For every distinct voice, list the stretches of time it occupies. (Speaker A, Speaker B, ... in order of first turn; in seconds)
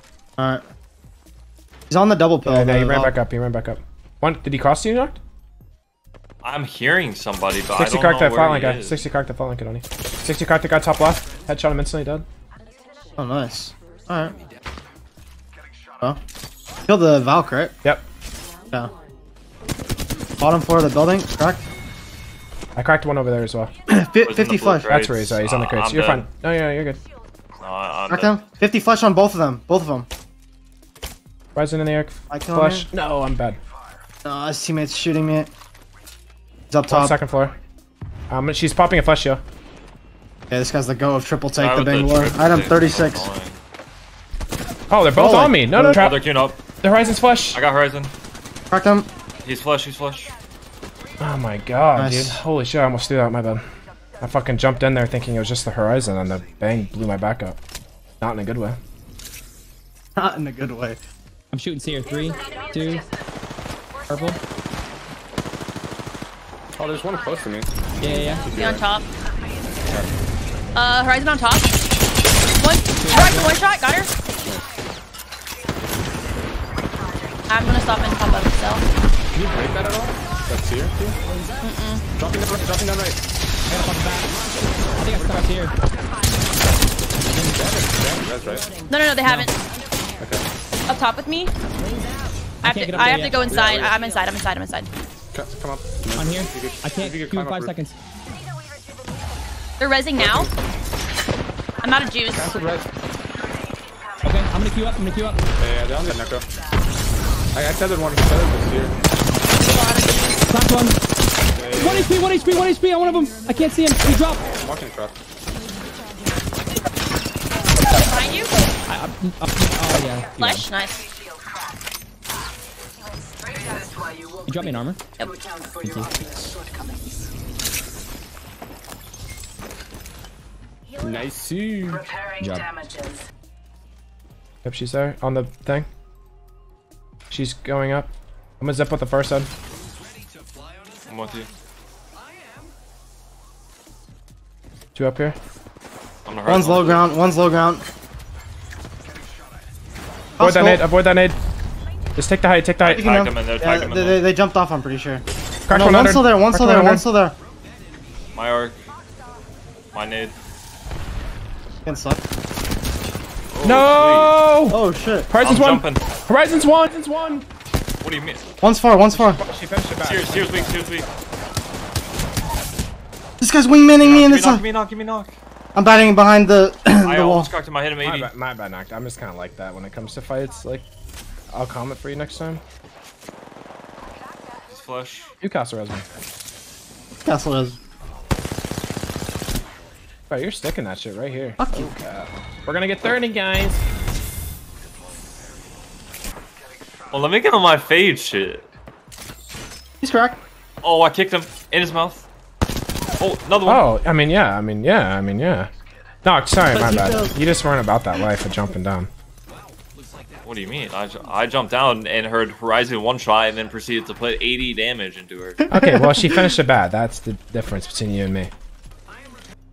Speaker A: 0.4-0.6, 1.9-3.2, 13.2-14.4, 16.9-17.8, 20.4-21.7, 23.9-24.9, 28.1-30.1, 32.3-32.9, 34.2-35.5, 36.7-37.2, 40.5-43.3, 45.1-46.1, 48.7-49.1, 51.9-52.4, 60.1-61.0, 146.4-147.8, 150.4-150.8, 152.8-157.3, 161.8-162.2, 164.7-165.3, 168.6-169.4, 173.4-174.6, 175.7-177.5, 187.2-187.8, 191.6-191.9, 200.0-200.4, 206.7-207.4, 215.7-216.6
Speaker B: 2.4-5.2, 7.7-12.2, 22.8-23.7, 24.9-27.0, 31.5-33.6, 36.9-37.5, 38.3-39.4, 44.9-46.2, 46.8-47.6, 51.2-53.7, 54.2-57.6, 58.2-58.8, 134.6-135.9, 137.3-139.5, 144.9-145.4, 150.4-151.4, 152.2-153.0, 155.7-157.0, 163.6-167.5, 169.1-170.7, 178.0-180.9, 181.5-182.6, 185.4-186.1, 190.3-193.8, 203.6-205.7, 206.2-209.1, 215.7-218.5
Speaker C: 6.4-9.1, 24.2-26.3, 27.6-28.5, 41.6-43.6, 45.8-46.6, 47.5-48.1, 49.4-50.3, 141.1-141.5, 146.2-147.1, 152.8-154.2, 158.3-158.8, 159.9-160.3, 163.5-164.3, 165.4-166.0, 168.0-168.4, 170.0-171.1, 174.0-175.3, 177.0-178.3, 184.7-185.3, 197.1-198.7, 200.8-202.2, 203.2-203.8, 210.4-215.6
Speaker D: 61.5-63.0, 64.1-64.4, 68.0-68.4, 72.9-73.5, 83.7-84.3, 84.9-85.7, 87.1-87.6, 89.2-89.5, 92.6-93.4, 96.1-97.9, 104.2-105.4, 110.5-111.0, 111.8-114.5, 118.9-120.7, 124.4-125.0, 125.8-126.3, 132.3-132.8
Speaker E: 66.8-68.9, 69.8-70.1, 79.3-81.2, 82.1-83.2, 84.5-85.5, 87.5-88.8, 90.2-90.4, 93.4-94.0, 95.3-97.8, 100.2-100.5, 102.3-102.9, 105.6-106.5, 107.5-108.9, 111.5-112.1, 114.5-115.2, 131.0-132.1
Speaker F: 68.1-69.1, 70.8-71.7, 72.6-74.1, 77.5-78.8, 81.6-82.0, 88.8-89.5, 90.9-91.5, 92.6-94.9, 99.8-100.5, 101.8-102.7, 109.6-110.5, 117.9-118.5, 120.4-121.0